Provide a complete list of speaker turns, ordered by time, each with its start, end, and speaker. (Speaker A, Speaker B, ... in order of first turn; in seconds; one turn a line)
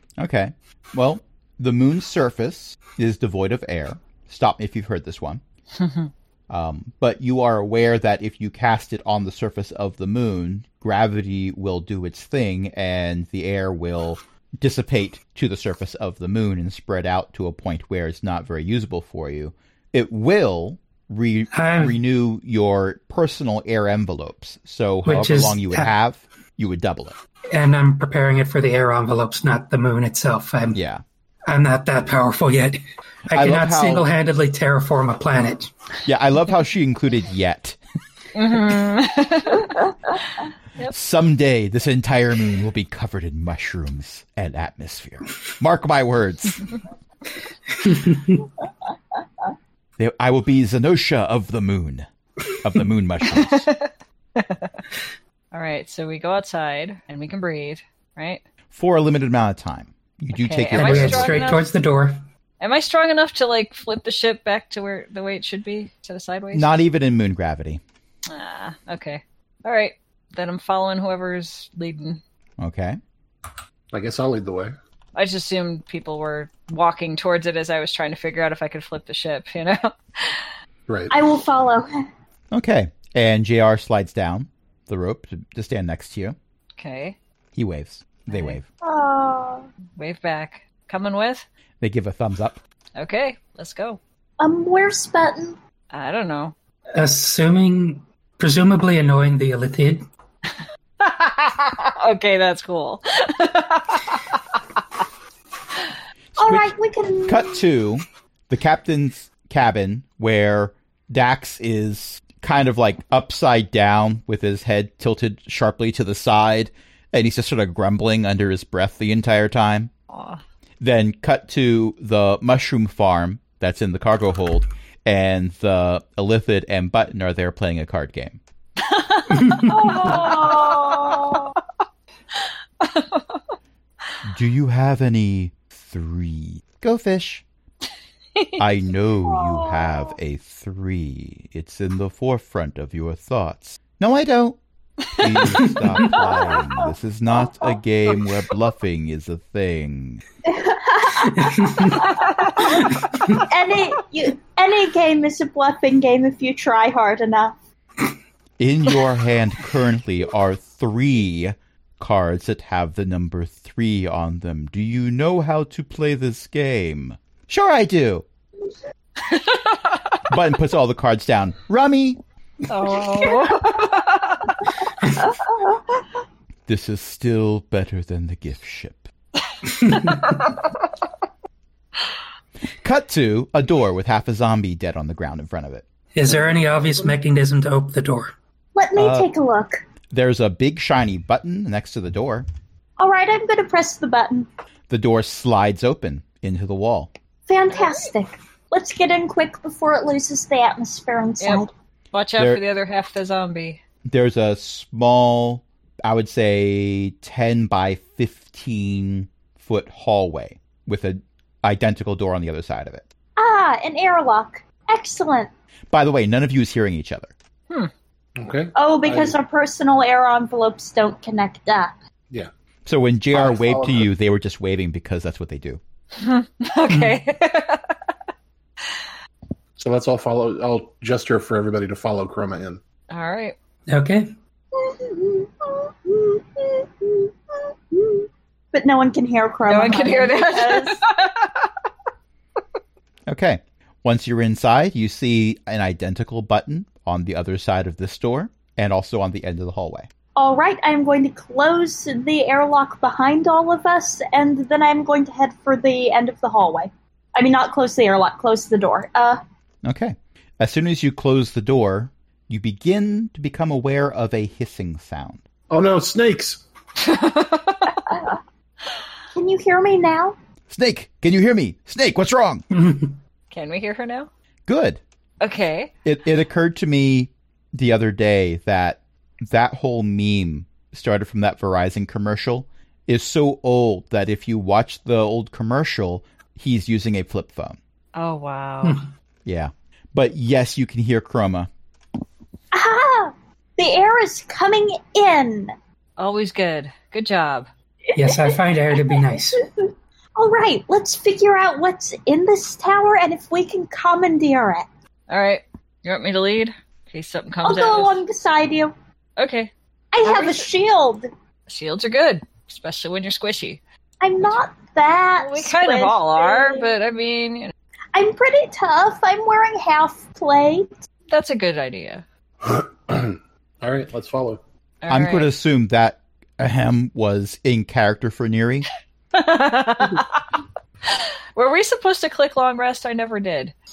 Speaker A: 0.2-5.4
Speaker B: 5.8-6.1
Speaker A: 6.5-27.2
Speaker C: 21.5-22.0
Speaker C: 25.0-25.9
Speaker C: 27.5-30.8
Speaker A: 30.7-31.0
Speaker C: 31.5-35.7
Speaker A: 33.3-34.1
Speaker A: 36.0-37.8
Speaker B: 38.3-39.9
Speaker A: 40.9-46.7
Speaker C: 47.8-48.4
Speaker A: 50.0-52.1
Speaker A: 52.6-53.7
Speaker B: 53.4-54.8
Speaker B: 55.5-58.4
Speaker A: 58.7-61.4
Speaker B: 60.3-61.7
Speaker C: 60.7-62.2
Speaker B: 62.6-66.7
Speaker A: 66.5-67.8
Speaker B: 68.3-72.2
Speaker A: 72.6-73.0
Speaker D: 73.9-74.7
Speaker B: 75.1-80.5
Speaker D: 80.9-81.1
Speaker E: 81.1-82.0
Speaker A: 82.5-86.3
Speaker B: 86.8-87.2
Speaker A: 87.5-88.6
Speaker B: 88.3-88.6
Speaker E: 88.8-89.7
Speaker B: 90.0-91.4
Speaker A: 91.8-92.6
Speaker B: 93.0-94.0
Speaker E: 94.4-95.6
Speaker B: 95.9-96.5
Speaker C: 96.9-100.0
Speaker B: 101.0-104.4
Speaker A: 106.4-106.7
Speaker E: 106.4-107.7
Speaker A: 107.2-119.9
Speaker B: 120.1-120.4
Speaker A: 120.8-128.4
Speaker B: 128.8-131.4
Speaker E: 129.6-131.5
Speaker B: 132.3-133.4
Speaker A: 134.2-137.4
Speaker B: 138.3-138.7
Speaker A: 138.6-144.6
Speaker E: 139.5-139.9
Speaker B: 145.1-145.4
Speaker A: 145.2-150.2
Speaker C: 145.6-146.1
Speaker E: 146.3-146.6
Speaker E: 150.4-157.6
Speaker C: 151.2-152.1
Speaker C: 152.9-153.4
Speaker A: 158.6-168.2
Speaker B: 169.2-170.2
Speaker A: 170.3-172.2
Speaker B: 172.7-174.5
Speaker A: 176.7-179.1
Speaker B: 179.7-180.6
Speaker C: 179.8-180.2
Speaker A: 182.8-185.8
Speaker C: 186.1-188.3
Speaker D: 186.2-187.2
Speaker E: 188.8-189.8
Speaker A: 188.9-189.3
Speaker A: 190.1-192.4
Speaker E: 193.0-194.5
Speaker A: 194.9-197.1
Speaker E: 197.5-201.7
Speaker B: 197.7-198.1
Speaker B: 201.4-203.8
Speaker A: 202.4-202.6
Speaker A: 204.1-213.0
Speaker E: 213.4-215.5
Speaker A: 215.9-217.3
Speaker D: 218.4-219.4
Speaker E: 218.7-221.9
Speaker A: 222.8-225.8
Speaker D: 223.3-224.1
Speaker B: 226.2-228.1
Speaker C: 226.9-227.2
Speaker D: 229.8-232.8
Speaker B: 233.1-233.5
Speaker C: 233.9-234.3
Speaker E: 234.7-237.3
Speaker E: 237.9-241.0
Speaker B: 239.7-241.7
Speaker A: 243.3-250.1
Speaker E: 250.3-259.4
Speaker A: 259.8-265.4
Speaker D: 265.7-266.6
Speaker B: 267.0-268.0
Speaker E: 268.1-268.3
Speaker E: 269.3-270.4
Speaker A: 270.7-272.6
Speaker C: 272.7-273.1
Speaker B: 273.5-274.3
Speaker A: 274.7-275.0
Speaker B: 275.4-275.9
Speaker A: 276.0-287.8
Speaker B: 288.1-289.0
Speaker A: 289.4-291.7
Speaker E: 292.7-295.7
Speaker B: 296.2-297.7
Speaker E: 298.1-304.9
Speaker C: 298.1-299.6
Speaker B: 305.3-308.2
Speaker E: 307.6-308.9
Speaker B: 309.4-309.7
Speaker E: 310.1-311.3
Speaker B: 310.2-310.7
Speaker B: 311.7-313.8
Speaker E: 314.2-316.9
Speaker B: 315.4-317.7
Speaker E: 318.1-320.9
Speaker B: 321.3-322.2
Speaker D: 322.6-324.6
Speaker B: 325.0-325.5
Speaker A: 325.1-328.9
Speaker B: 329.3-333.7